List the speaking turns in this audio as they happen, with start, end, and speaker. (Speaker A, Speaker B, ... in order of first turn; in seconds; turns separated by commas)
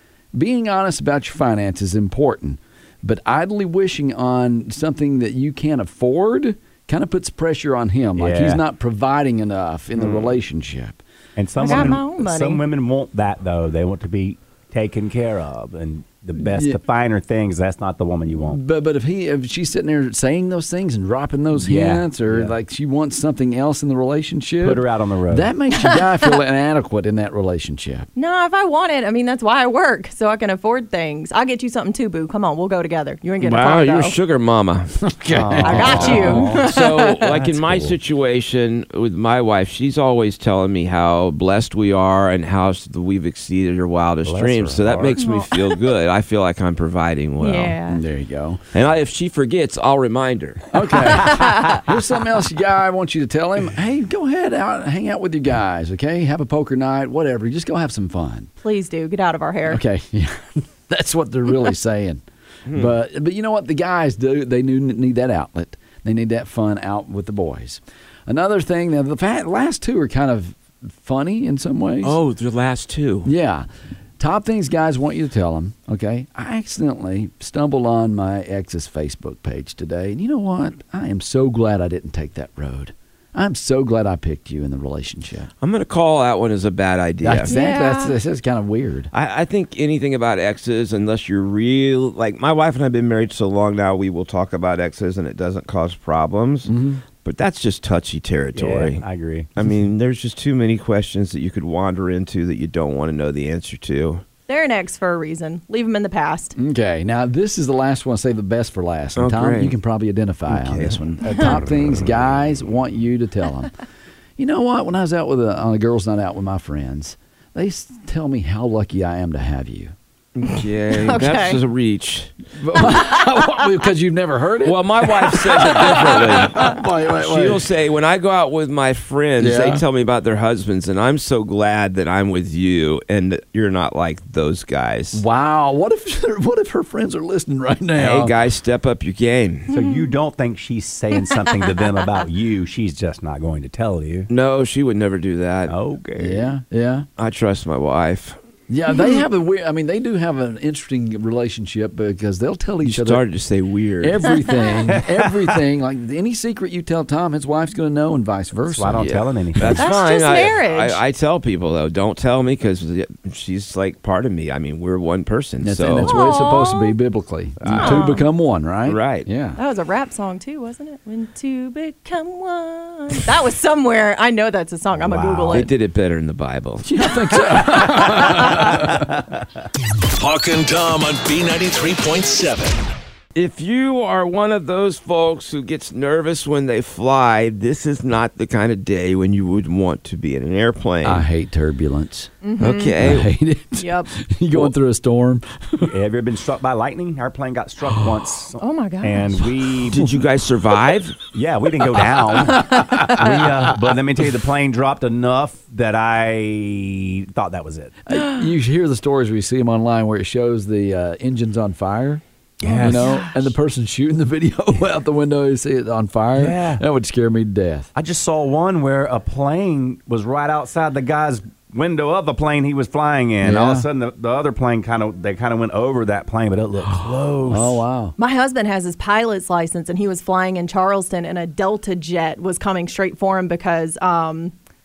Speaker A: 0.3-11.0, Speaker B: 8.2-8.6, Speaker C: 10.0-10.3, Speaker B: 11.4-18.6, Speaker D: 11.6-12.6, Speaker A: 16.5-16.8, Speaker A: 18.5-28.1, Speaker B: 21.5-22.5, Speaker B: 24.6-25.5, Speaker D: 28.2-34.2, Speaker C: 33.4-34.9, Speaker A: 35.0-36.5, Speaker B: 35.3-36.7, Speaker D: 35.6-37.3, Speaker C: 35.7-47.8, Speaker B: 37.2-38.0, Speaker B: 44.2-45.2, Speaker D: 45.2-45.8, Speaker D: 47.4-48.0, Speaker A: 47.9-48.6, Speaker C: 48.7-50.7, Speaker A: 50.7-58.5, Speaker D: 51.1-51.8, Speaker D: 58.6-59.8, Speaker A: 59.7-72.2, Speaker C: 62.7-62.9, Speaker C: 72.0-73.3, Speaker A: 73.2-73.7, Speaker A: 74.2-85.5, Speaker C: 85.6-87.5, Speaker A: 87.2-89.1, Speaker D: 87.5-88.2, Speaker C: 89.1-96.7, Speaker A: 96.7-97.0, Speaker C: 97.2-99.0, Speaker B: 98.5-99.5, Speaker C: 99.6-104.2, Speaker D: 104.5-106.5, Speaker A: 106.6-113.7, Speaker C: 109.2-109.8, Speaker C: 110.7-110.9, Speaker B: 111.2-112.1, Speaker A: 114.4-120.0, Speaker C: 120.4-122.3, Speaker D: 121.0-121.6, Speaker A: 122.6-127.6, Speaker C: 124.6-135.2, Speaker A: 129.4-129.8, Speaker A: 135.1-138.3, Speaker C: 138.0-139.7, Speaker B: 139.7-144.3, Speaker D: 139.7-140.1, Speaker D: 141.3-141.6, Speaker C: 144.3-145.8, Speaker B: 145.7-146.5, Speaker A: 146.2-147.1, Speaker C: 147.2-148.4, Speaker A: 148.7-153.2, Speaker D: 148.9-149.2, Speaker C: 152.8-154.4, Speaker A: 154.0-159.1, Speaker B: 158.7-159.9, Speaker C: 159.0-166.2, Speaker D: 159.8-161.0, Speaker A: 165.6-169.6, Speaker D: 166.0-167.0, Speaker B: 167.7-168.0, Speaker D: 167.7-168.3, Speaker C: 168.9-169.3, Speaker D: 169.6-175.7, Speaker B: 174.9-175.7, Speaker C: 175.5-177.1, Speaker A: 176.8-179.1, Speaker B: 179.0-179.4, Speaker E: 180.2-182.8, Speaker C: 183.3-191.2, Speaker A: 191.0-192.3, Speaker D: 192.4-193.0, Speaker C: 192.6-193.3, Speaker A: 193.0-195.9, Speaker D: 193.8-194.1, Speaker B: 195.8-200.1, Speaker D: 198.6-199.5, Speaker C: 199.9-201.2, Speaker B: 201.3-207.9, Speaker D: 202.5-203.6, Speaker A: 208.1-212.2, Speaker D: 208.1-208.4, Speaker B: 212.6-213.5, Speaker A: 212.8-217.9, Speaker B: 216.3-216.8, Speaker B: 217.9-227.8, Speaker A: 223.4-223.9, Speaker A: 226.8-228.1, Speaker D: 228.2-234.5